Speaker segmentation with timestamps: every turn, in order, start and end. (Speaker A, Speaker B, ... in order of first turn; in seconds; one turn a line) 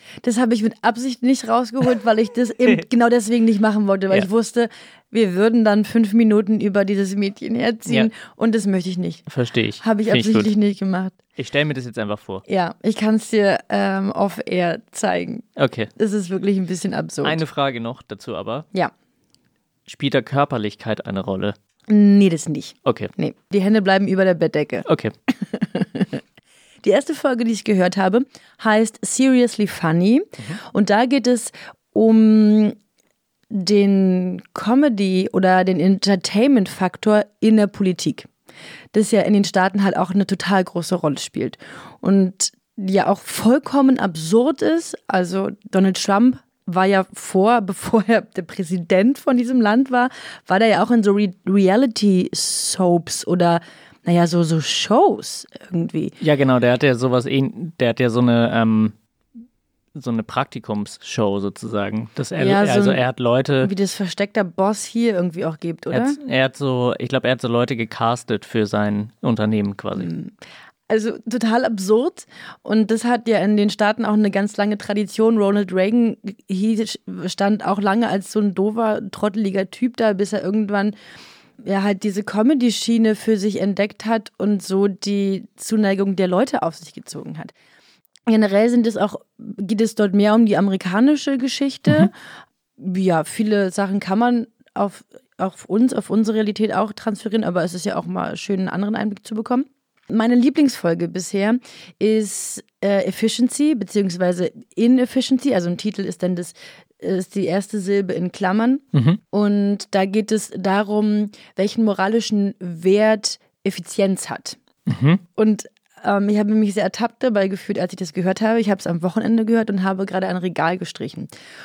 Speaker A: 0.2-9.2
Speaker B: 9.3-10.5
Speaker A: 9.8-11.1
Speaker B: 11.4-12.4
Speaker A: 12.5-15.4
Speaker B: 15.6-15.9
Speaker A: 16.0-17.4
Speaker B: 17.2-18.7
Speaker B: 19.9-21.6
Speaker A: 21.9-24.8
Speaker B: 22.8-23.1
Speaker B: 24.9-25.1
Speaker A: 25.4-26.2
Speaker A: 26.8-32.8
Speaker A: 33.5-38.3
Speaker A: 38.9-56.1
Speaker B: 56.2-58.9
Speaker B: 59.9-63.7
Speaker A: 62.4-63.0
Speaker A: 63.6-66.2
Speaker B: 65.9-70.1
Speaker A: 70.0-70.3
Speaker A: 70.9-80.9
Speaker A: 81.6-87.5
Speaker A: 88.3-92.1
Speaker A: 92.8-114.6
Speaker B: 108.9-109.2
Speaker B: 114.9-115.2
Speaker A: 115.4-121.3